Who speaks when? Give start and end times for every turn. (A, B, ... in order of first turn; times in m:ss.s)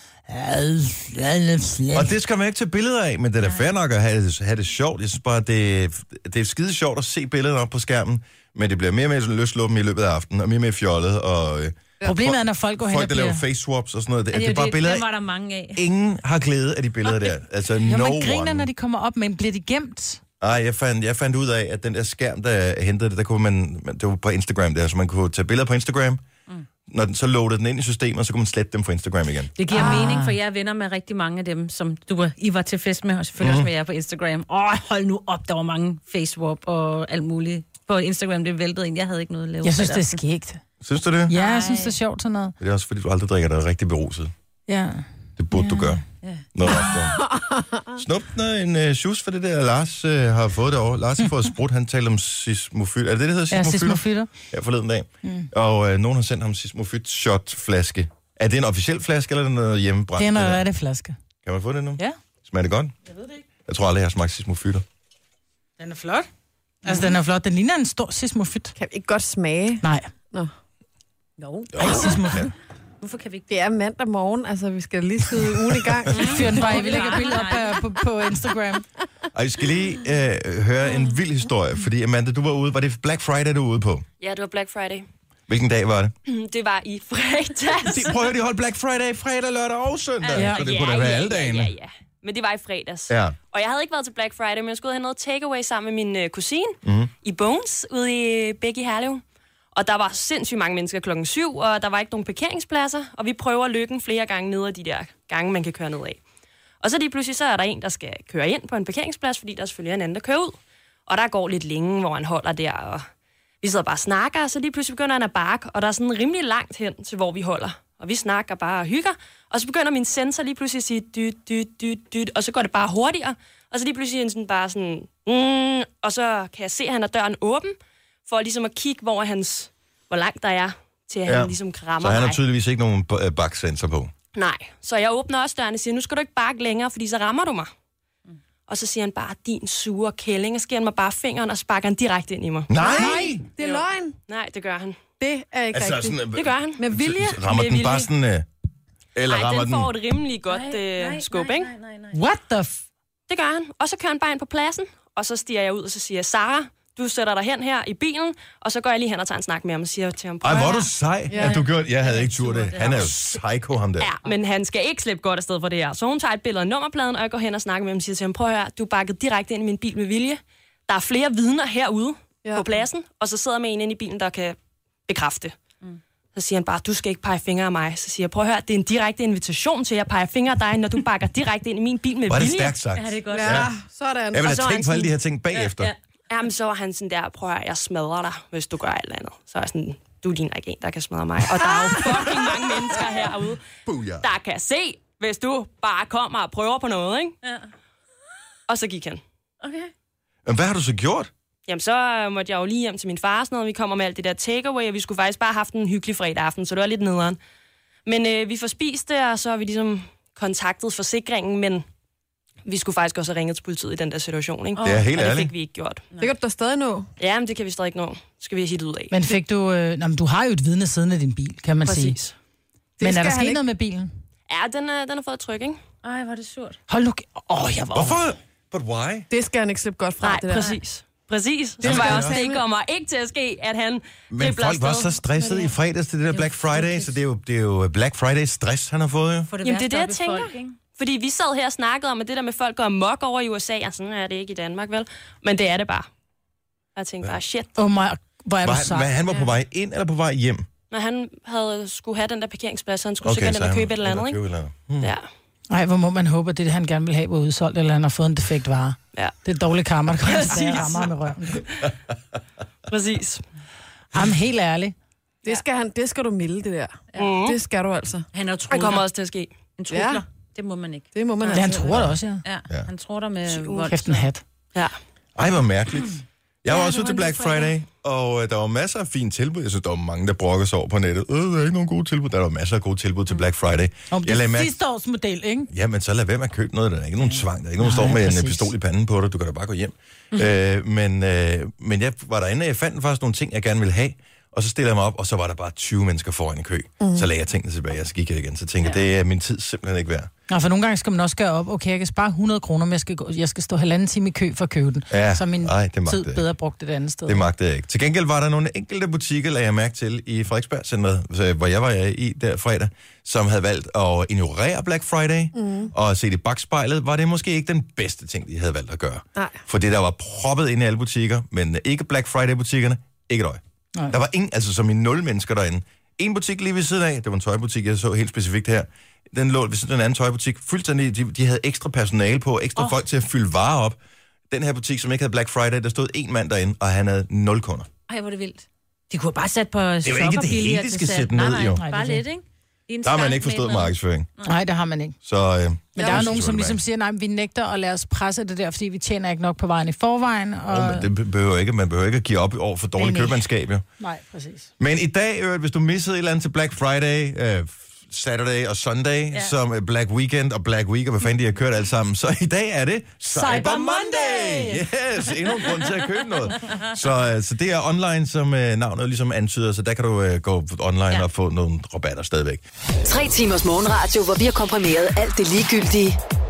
0:00.3-0:02.1 A
0:01.9-0:15.1 B
0:12.0-0:13.4 A
0:14.3-0:15.8 C
0:15.8-0:18.7 B
0:17.8-0:20.2 A
0:20.4-0:26.2 B
0:26.9-0:29.5 B
0:29.6-0:40.2 C
0:29.7-0:30.3 A
0:29.7-0:30.1 D
0:33.4-0:33.7 B
0:39.6-0:40.6 A
0:40.8-0:41.3 B
0:41.3-0:42.6 A
0:41.3-0:42.0 C
0:42.6-0:44.3 B
0:44.7-0:46.0 A
0:45.4-0:46.0 B
0:46.6-0:47.3 B
0:47.3-0:47.7 D
0:48.0-1:00.6 B
0:53.5-0:54.3 A
0:55.2-0:55.5 A
1:00.2-1:01.2 A
1:01.4-1:02.9 B
1:03.7-1:04.8 B
1:05.8-1:06.3 A
1:06.8-1:08.7 A
1:08.8-1:10.5 D
1:09.8-1:10.1 A
1:11.4-1:12.2 C
1:11.7-1:12.5 B
1:11.8-1:12.5 A
1:13.0-1:13.5 C
1:13.5-1:17.6 D
1:15.9-1:16.1 B
1:16.1-1:17.8 C
1:16.2-1:18.8 A
1:19.3-1:24.1 B
1:24.2-1:25.1 E
1:25.5-1:26.1 B
1:26.3-1:28.2 E
1:27.9-1:31.7 B
1:30.2-1:39.2 E
1:30.4-1:30.6 A
1:33.1-1:33.4 B
1:36.8-1:37.1 B
1:39.8-1:46.2 E
1:46.8-1:53.1 E
1:53.6-2:07.8 E
2:08.3-2:12.4 E
2:11.3-2:14.1 B
2:14.4-2:17.7 E
2:18.7-2:23.0 E
2:22.7-2:23.5 B
2:22.8-2:24.2 D
2:23.6-2:25.0 E
2:25.2-2:26.2 D
2:25.7-2:28.5 B
2:26.4-2:26.8 E
2:26.8-2:27.4 D
2:27.5-2:28.1 E
2:29.2-2:29.9 B
2:29.3-2:31.7 E
2:30.5-2:32.2 C
2:32.1-2:32.8 A
2:33.3-2:40.9 E
2:40.4-2:44.1 B
2:41.3-2:43.4 C
2:41.3-2:41.6 D
2:44.0-2:54.6 E
2:55.1-2:55.6 E
2:56.4-3:02.8 E
3:02.3-3:03.7 B
3:02.9-3:03.7 C
3:03.3-3:05.1 D
3:04.3-3:05.9 B
3:04.4-3:05.0 E
3:05.6-3:06.0 C
3:06.3-3:13.6 E
3:13.9-3:14.3 B
3:14.2-3:17.4 E
3:18.7-3:19.2 E
3:19.6-3:19.9 C
3:20.5-3:21.3 B
3:21.7-3:27.4 E
3:28.1-3:31.8 E
3:32.6-3:36.0 E
3:34.8-3:35.1 C
3:34.8-3:35.5 B
3:36.2-3:37.1 D
3:37.2-3:39.1 E
3:39.1-3:42.2 A
3:41.8-3:42.3 E
3:43.0-3:43.6 D
3:43.0-3:44.1 A
3:44.5-3:45.8 E
3:46.0-3:46.8 C
3:46.9-3:48.2 A
3:47.9-3:49.3 B
3:49.3-3:50.8 D
3:50.2-3:55.2 E
3:51.8-3:52.4 B
3:51.8-3:52.6 D
3:54.3-3:59.5 B
3:55.4-3:55.7 C
3:56.3-3:57.1 C
3:59.5-4:00.8 C
3:59.6-4:06.1 E
4:07.0-4:07.8 E
4:07.8-4:09.2 A
4:08.6-4:10.7 B
4:10.9-4:14.4 E
4:13.2-4:15.1 B
4:15.0-4:15.3 E
4:15.7-4:21.6 A
4:20.4-4:21.1 E
4:20.4-4:21.1 C
4:22.9-4:23.4 E
4:24.1-4:25.0 A
4:25.4-4:28.3 D
4:27.2-4:27.6 E
4:28.3-4:29.1 C
4:28.7-4:29.6 E
4:29.8-4:34.3 C
4:29.9-4:30.2 D
4:31.1-4:31.9 D
4:31.5-4:32.4 A
4:33.5-4:33.9 E
4:33.9-4:34.4 A
4:35.4-4:44.8 B
4:36.7-4:37.7 C
4:44.1-4:45.7 A
4:45.7-5:00.3 B
4:47.8-4:48.7 A
4:57.0-4:57.3 D
5:00.5-5:07.5 A
5:05.1-5:06.5 B
5:07.3-5:34.0 B
5:15.6-5:15.9 D
5:34.5-5:37.9 B
5:38.1-5:44.5 C
5:40.0-5:41.8 B
5:41.8-5:42.2 A
5:43.0-5:44.3 B
5:44.4-5:45.2 A
5:45.2-5:46.8 B
5:46.0-5:51.1 A
5:46.0-5:46.4 D
5:50.7-5:53.8 B
5:53.0-5:53.5 A
5:54.0-5:54.7 A
5:54.8-6:12.6 B
6:03.3-6:04.8 A
6:13.0-6:16.2 F